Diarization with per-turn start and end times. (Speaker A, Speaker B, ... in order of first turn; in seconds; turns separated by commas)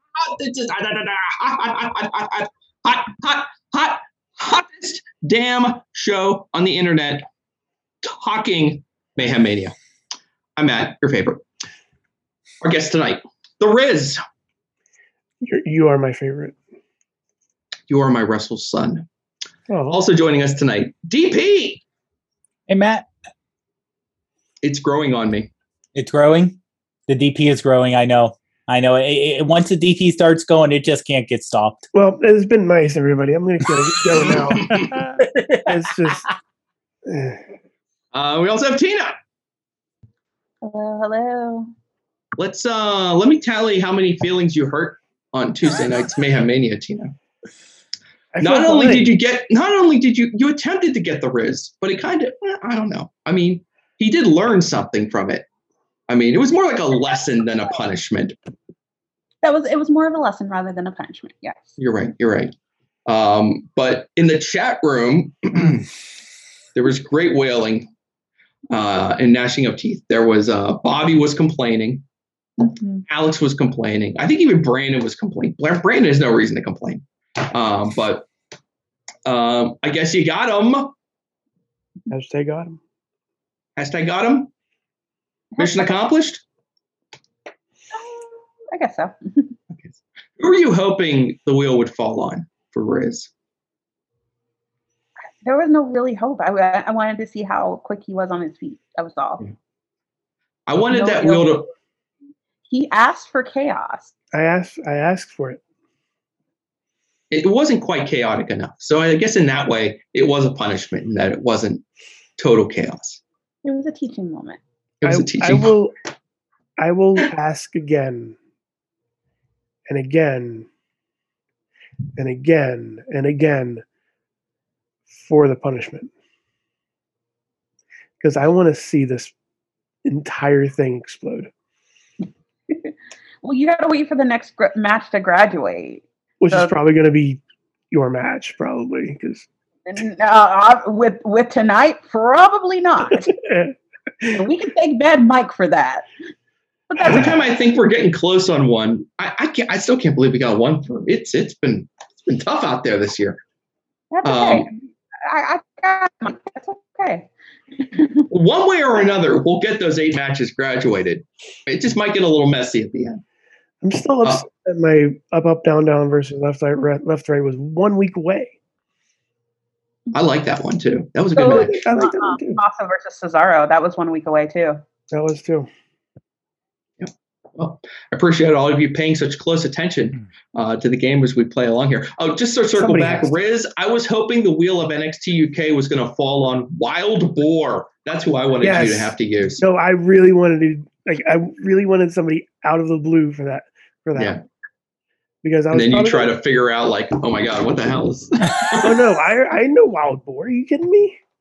Speaker A: 0.2-7.2, Speaker A: 8.1-9.7, Speaker A: 10.6-11.4, Speaker A: 12.6-14.2, Speaker B: 15.4-16.6, Speaker A: 17.9-19.1, Speaker B: 19.7-20.0, Speaker A: 19.9-21.8, Speaker C: 22.7-23.1, Speaker A: 24.6-25.5, Speaker C: 25.9-31.8, Speaker B: 31.9-34.9, Speaker C: 35.3-35.6, Speaker B: 35.7-36.3, Speaker B: 37.1-37.4, Speaker A: 38.1-39.1, Speaker D: 40.6-41.7, Speaker A: 42.4-47.1, Speaker B: 48.3-49.1, Speaker A: 48.4-55.5, Speaker A: 56.1-58.4, Speaker D: 59.4-61.8, Speaker A: 61.8-62.5, Speaker A: 63.1-65.9, Speaker A: 66.8-67.9, Speaker A: 68.7-72.0, Speaker D: 72.6-73.0, Speaker A: 73.1-78.3, Speaker A: 79.3-80.9, Speaker B: 82.1-82.8, Speaker A: 83.8-84.5, Speaker D: 85.6-86.0, Speaker A: 85.6-86.4, Speaker D: 87.9-89.6, Speaker A: 89.7-93.3, Speaker D: 95.5-99.5, Speaker A: 100.7-101.7, Speaker D: 100.9-101.6, Speaker D: 102.7-104.1, Speaker B: 104.3-105.6, Speaker A: 107.3-111.8, Speaker A: 112.4-113.2, Speaker D: 113.6-114.6, Speaker A: 115.0-115.8, Speaker B: 115.0-116.0, Speaker B: 116.8-118.4, Speaker B: 119.9-120.7, Speaker B: 122.2-123.8, Speaker B: 125.1-126.1, Speaker B: 128.2-129.3, Speaker B: 130.1-131.5, Speaker D: 132.7-136.8, Speaker B: 136.4-139.5, Speaker D: 139.9-143.3, Speaker B: 143.1-144.4, Speaker D: 144.3-146.1, Speaker D: 146.9-147.3, Speaker A: 147.0-153.4, Speaker D: 154.1-154.7, Speaker A: 154.2-154.7, Speaker D: 155.2-158.3, Speaker A: 158.3-163.2, Speaker B: 163.8-168.6, Speaker A: 170.1-171.8, Speaker D: 171.3-174.8, Speaker B: 171.5-172.6, Speaker B: 175.1-175.7, Speaker A: 177.0-189.6, Speaker B: 182.8-183.4, Speaker B: 188.6-194.4, Speaker A: 194.2-194.4, Speaker B: 195.4-196.3, Speaker A: 195.7-198.9, Speaker B: 198.8-201.2